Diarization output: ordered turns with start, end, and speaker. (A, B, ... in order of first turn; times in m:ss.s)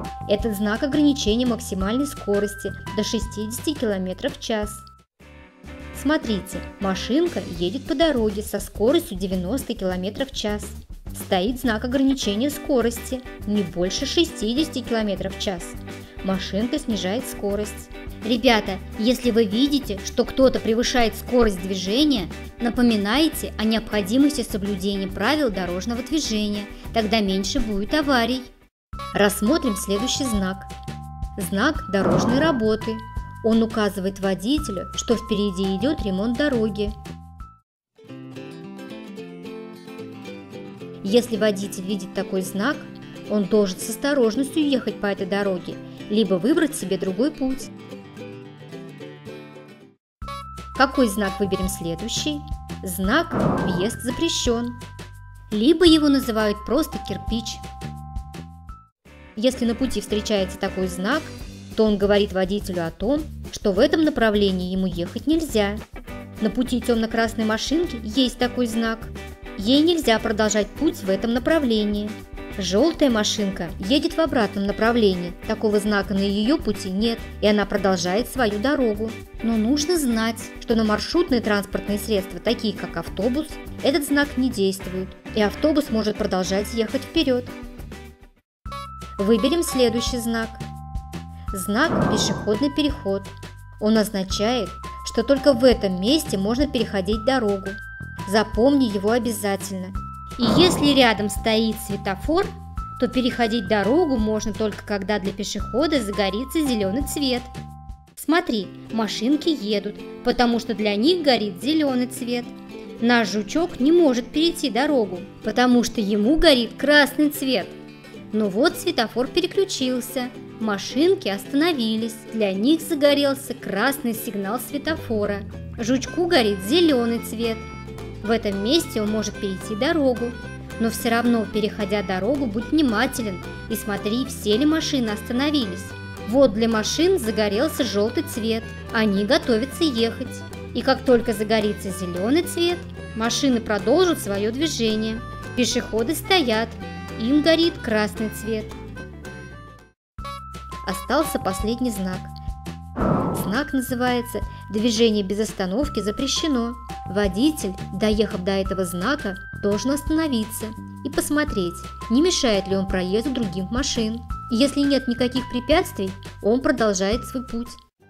0:00.2-0:04.8 A
0:05.9-0:28.5 A
0:29.1-0:30.7 A
0:31.4-0:37.0 A
0:41.0-0:47.7 A
0:50.8-0:54.8 A
0:55.5-0:57.6 A
0:59.4-1:05.8 A
1:06.4-1:27.5 A
1:29.2-1:30.6 A
1:31.5-1:47.5 A
1:48.2-1:57.8 A
1:58.3-2:07.7 A
2:08.2-2:28.8 A
2:30.8-2:32.3 A
2:33.3-2:47.8 A